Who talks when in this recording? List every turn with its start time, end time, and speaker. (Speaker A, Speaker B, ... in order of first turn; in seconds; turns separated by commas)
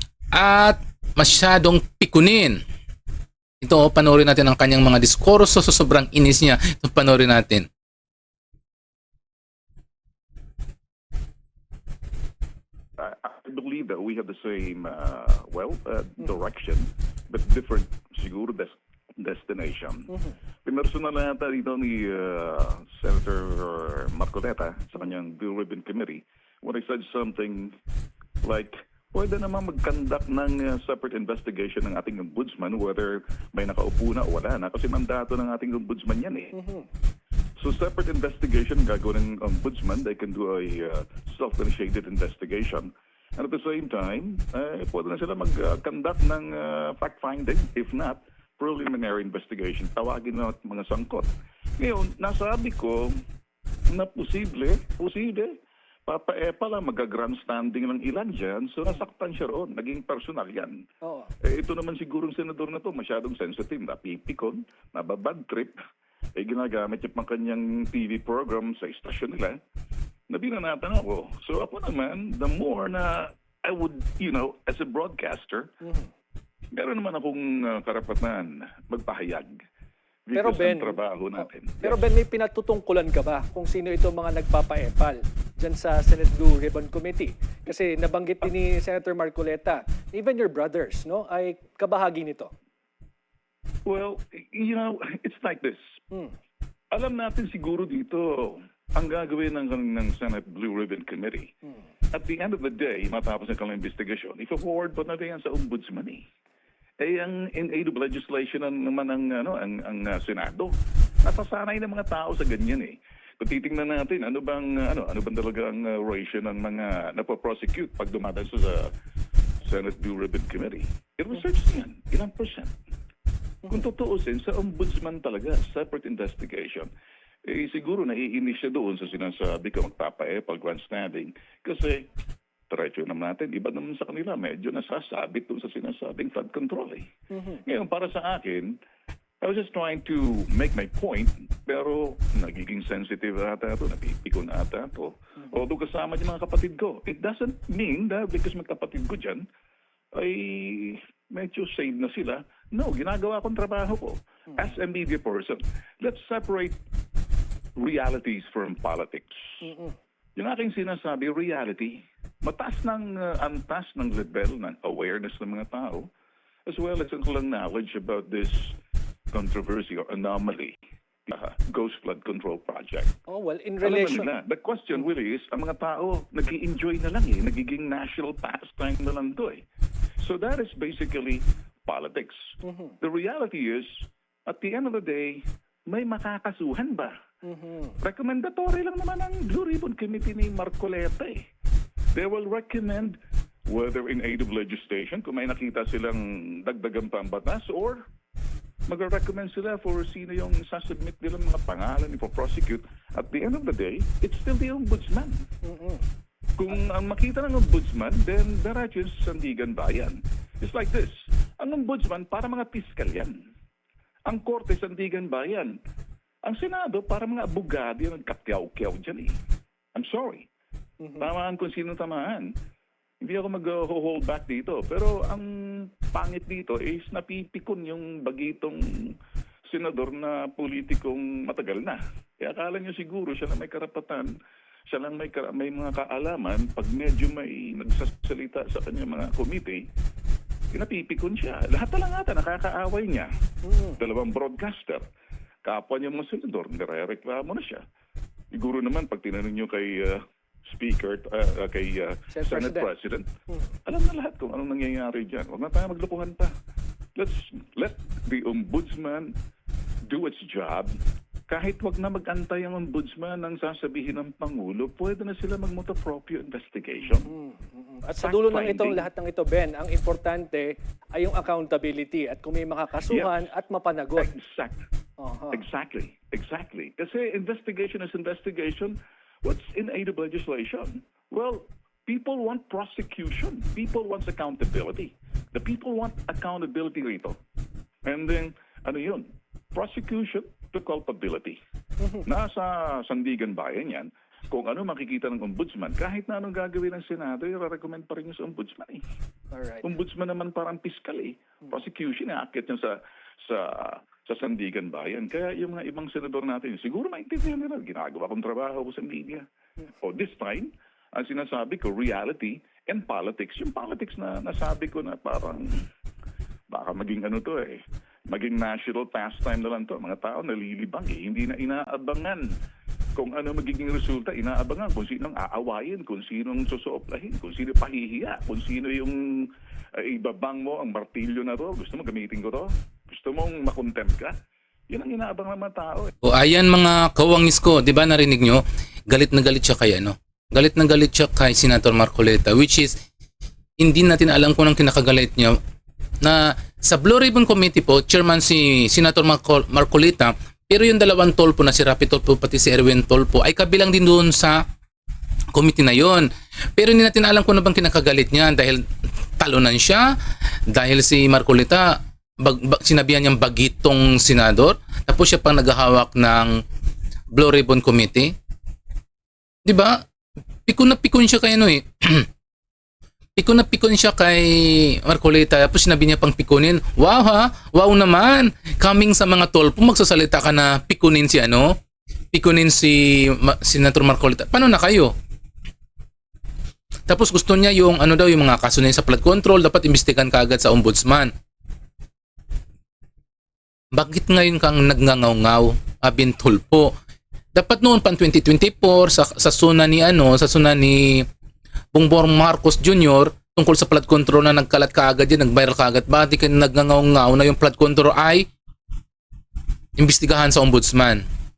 Speaker A: 0.3-2.6, Speaker A: 3.6-7.7, Speaker B: 13.0-20.1, Speaker B: 20.6-27.8, Speaker B: 28.4-36.5, Speaker C: 36.5-36.9, Speaker B: 37.6-53.1, Speaker B: 53.9-55.5, Speaker B: 56.1-60.8, Speaker C: 61.0-61.3, Speaker B: 61.4-65.8, Speaker B: 66.4-69.6, Speaker B: 70.3-75.7, Speaker C: 75.8-76.1, Speaker B: 76.7-79.5, Speaker B: 80.3-82.0, Speaker C: 80.3-92.5, Speaker B: 93.8-96.0, Speaker B: 96.9-101.5, Speaker B: 102.1-106.2, Speaker B: 107.0-110.7, Speaker B: 111.2-118.9, Speaker B: 119.6-122.7, Speaker B: 123.7-126.9, Speaker B: 127.5-132.1, Speaker B: 132.7-137.1, Speaker C: 137.3-137.6, Speaker B: 137.6-138.8, Speaker B: 139.4-149.4, Speaker B: 150.1-156.8, Speaker B: 157.8-159.7, Speaker C: 159.6-159.9, Speaker B: 160.3-166.1, Speaker B: 166.7-168.7, Speaker B: 169.3-170.7, Speaker B: 171.2-173.1, Speaker C: 173.3-174.3, Speaker B: 173.8-179.6, Speaker B: 180.2-182.5, Speaker C: 182.6-182.9, Speaker B: 183.0-183.9, Speaker B: 184.5-187.1, Speaker C: 187.4-188.0, Speaker B: 188.0-191.4, Speaker B: 192.1-193.2, Speaker B: 193.7-198.0, Speaker B: 198.9-205.4, Speaker C: 205.7-206.0, Speaker B: 206.6-213.3, Speaker B: 214.3-215.7, Speaker B: 216.4-219.4, Speaker B: 219.9-220.5, Speaker C: 221.0-221.3, Speaker B: 221.2-222.5, Speaker B: 223.2-229.1, Speaker B: 229.7-234.3, Speaker B: 234.9-239.8, Speaker B: 240.7-243.3, Speaker C: 243.7-244.0, Speaker B: 244.0-245.0, Speaker B: 245.6-247.8, Speaker B: 248.5-253.3, Speaker C: 252.3-252.9, Speaker B: 253.8-256.5, Speaker B: 257.2-259.3, Speaker B: 260.1-260.9, Speaker B: 261.5-267.3, Speaker C: 267.2-274.3, Speaker B: 268.2-269.1, Speaker B: 273.0-273.5, Speaker B: 274.1-274.8, Speaker C: 275.2-275.6, Speaker B: 275.5-287.4, Speaker B: 288.1-291.6, Speaker C: 292.0-292.3, Speaker B: 292.2-299.0, Speaker C: 299.5-299.9, Speaker B: 299.8-309.4, Speaker B: 310.0-315.7, Speaker B: 316.7-322.4, Speaker B: 323.1-334.3, Speaker B: 334.9-336.1, Speaker A: 336.2-342.9, Speaker A: 343.8-345.6, Speaker A: 346.2-354.6, Speaker A: 355.5-358.8, Speaker A: 359.4-360.0, Speaker A: 360.7-361.9, Speaker A: 362.4-366.5, Speaker A: 367.3-368.3, Speaker A: 369.6-370.0, Speaker A: 370.6-372.2, Speaker A: 373.4-381.7, Speaker A: 382.3-385.1, Speaker A: 387.1-391.3, Speaker A: 393.9-396.9, Speaker A: 397.5-401.2, Speaker A: 401.9-408.4, Speaker A: 410.0-411.2